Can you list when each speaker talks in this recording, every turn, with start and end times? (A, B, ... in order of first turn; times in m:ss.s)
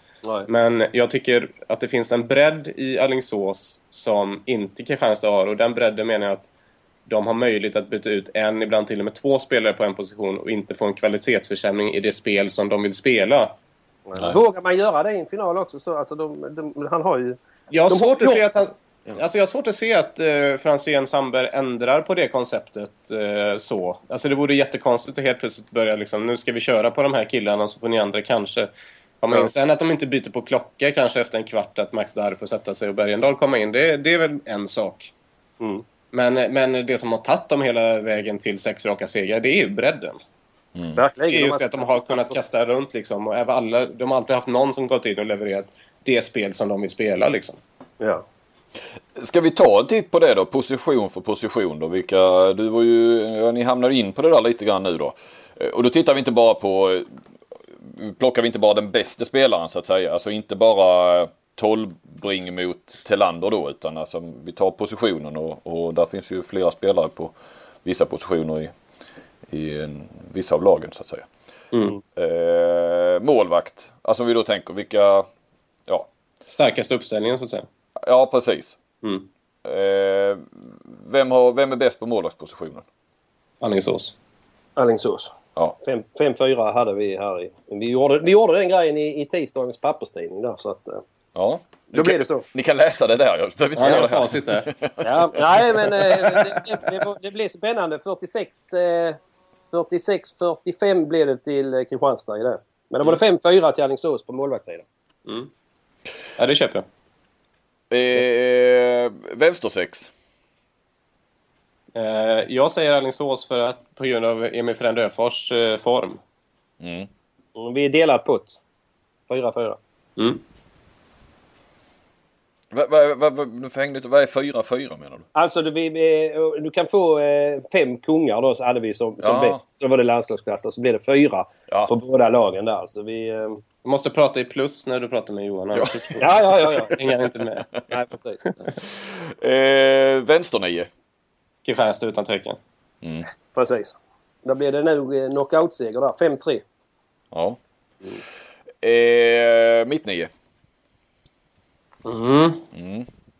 0:00.5-0:06.5 A
0:07.1-0:13.5 A
0:14.1-0:17.4 B
0:17.7-0:28.7 A
0:17.9-0:18.5 B
0:29.2-0:35.1 A
0:36.1-0:40.2 A
0:41.0-0:42.4 B
0:41.3-0:47.6 A
0:48.0-0:48.2 B
0:49.2-0:57.1 C
0:57.7-1:08.7 C
1:09.5-1:11.3 C
1:11.7-1:12.0 A
1:12.1-1:15.3 C
1:16.5-1:17.6 A
1:18.0-1:18.8 C
1:19.6-1:22.8 C
1:23.6-1:24.1 A
1:24.8-1:31.0 B
1:31.3-1:36.6 C
1:31.9-1:32.4 B
1:33.8-1:34.7 A
1:35.0-1:39.2 B
1:39.7-1:44.8 B
1:46.4-1:46.8 A
1:47.9-1:50.1 C
1:51.9-1:56.2 A
1:56.8-1:57.1 C
1:57.6-1:58.6 B
1:59.3-1:59.8 B
2:02.7-2:05.3 C
2:05.3-2:13.6 B
2:09.2-2:09.6 C
2:13.8-2:17.7 A
2:15.7-2:17.1 C
2:16.2-2:16.9 B
2:17.9-2:18.4 B
2:19.0-2:20.9 C
2:21.6-2:22.6 A
2:23.0-2:23.3 C
2:23.5-2:26.6 B
2:27.3-2:27.6 C
2:28.8-2:30.3 C
2:32.0-2:32.6 A
2:32.7-2:33.1 C